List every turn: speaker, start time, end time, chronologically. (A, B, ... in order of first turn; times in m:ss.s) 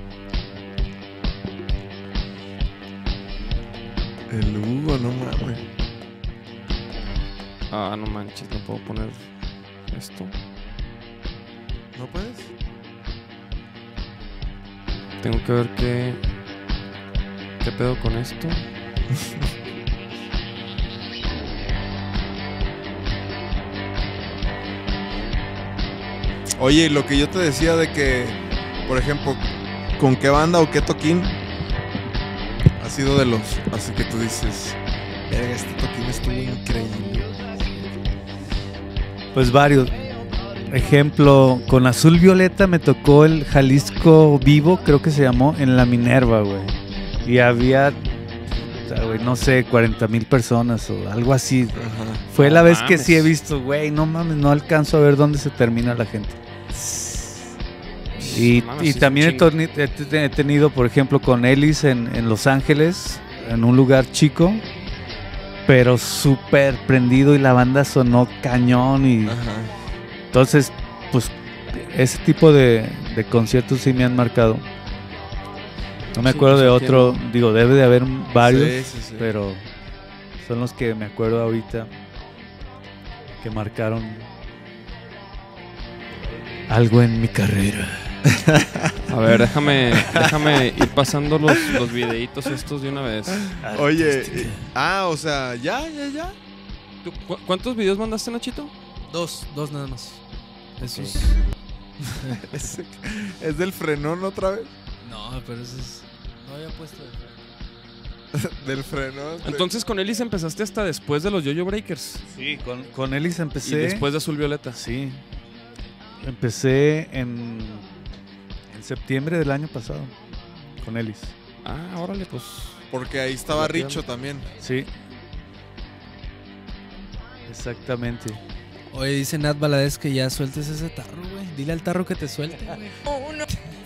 0:04.3-0:05.6 A
0:07.7-0:09.3 B
0:09.9-0:10.3 B
0:11.9-0:12.5 A
0:15.2-0:16.2 B
0:17.6-0:18.6 B
0:26.6-0:31.3 A
0:32.8-0:34.8 A
0:35.3-0:37.4 A
0:39.3-0:40.0 C
0:40.7-0:48.0 C
0:48.8-0:56.4 C
0:51.8-0:52.2 A
0:52.3-0:53.3 B
0:56.8-0:57.1 B
0:58.1-0:59.5 B
0:58.2-1:04.6 C
1:05.7-1:09.4 C
1:09.2-1:09.7 A
1:10.3-1:14.6 C
1:16.1-1:19.7 C
1:16.2-1:17.2 B
1:18.4-1:19.3 A
1:20.4-1:21.9 C
1:23.4-1:24.3 C
1:26.7-1:28.1 C
1:28.3-1:28.9 A
1:29.1-1:33.5 B
1:30.1-1:30.3 A
1:33.4-1:36.3 A
1:33.6-1:34.6 C
1:37.0-1:38.7 B
1:39.1-1:40.2 D
1:40.8-1:41.4 D
1:40.9-1:41.1 C
1:42.2-1:44.7 A
1:45.0-1:47.4 D
1:48.3-1:49.7 A
1:49.4-1:52.2 B
1:52.3-1:54.1 C
1:53.6-1:54.8 B
1:54.7-1:55.2 C
1:56.2-1:57.8 C
1:58.7-2:00.1 C
2:00.8-2:01.3 C
2:01.6-2:02.8 B
2:02.9-2:04.5 A
2:03.5-2:04.0 B
2:04.6-2:04.9 C
2:07.5-2:08.4 C
2:08.9-2:13.4 D